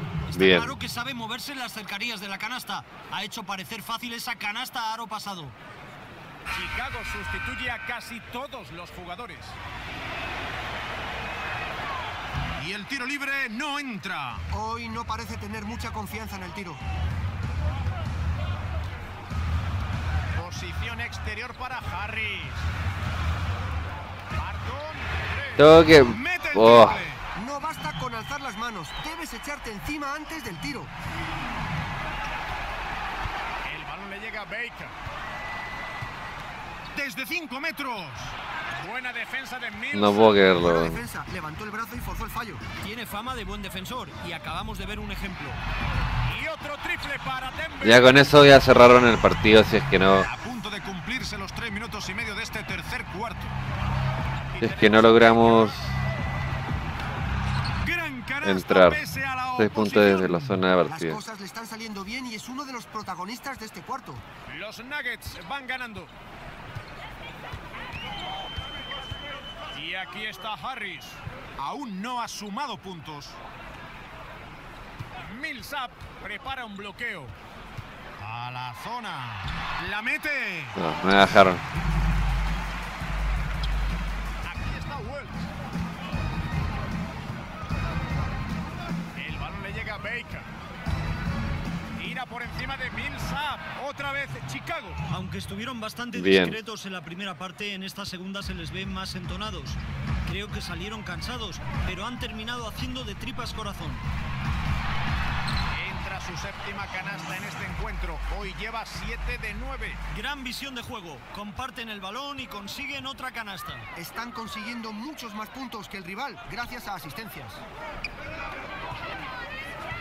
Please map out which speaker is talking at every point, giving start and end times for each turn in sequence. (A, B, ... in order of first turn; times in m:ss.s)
0:00.3-0:05.6 A
0:00.3-0:00.7 B
0:06.5-0:09.6 C
0:12.6-0:14.4 C
0:14.5-0:16.8 D
0:20.3-0:22.6 C
0:24.3-0:27.2 C
0:25.6-0:27.0 B
0:27.4-0:30.9 D
0:33.6-0:35.0 C
0:36.9-0:40.4 C
0:39.9-0:41.0 B
0:40.6-0:42.6 D
0:42.8-0:45.6 A
0:46.2-0:48.2 C
0:47.8-0:50.3 B
0:50.2-0:53.5 C
0:54.5-0:55.9 C
0:54.6-0:56.0 B
0:57.8-1:00.4 C
0:58.4-0:59.0 B
0:59.6-1:01.2 B
1:00.8-1:04.2 D
1:04.5-1:06.1 C
1:09.7-1:13.4 C
1:15.2-1:17.4 C
1:18.2-1:20.8 C
1:20.8-1:21.6 B
1:24.4-1:25.5 C
1:29.1-1:30.5 C
1:32.0-1:35.0 C
1:35.1-1:44.0 A
1:36.1-1:36.6 B
1:45.7-1:50.0 C
1:50.1-1:53.9 A
1:54.0-1:57.6 D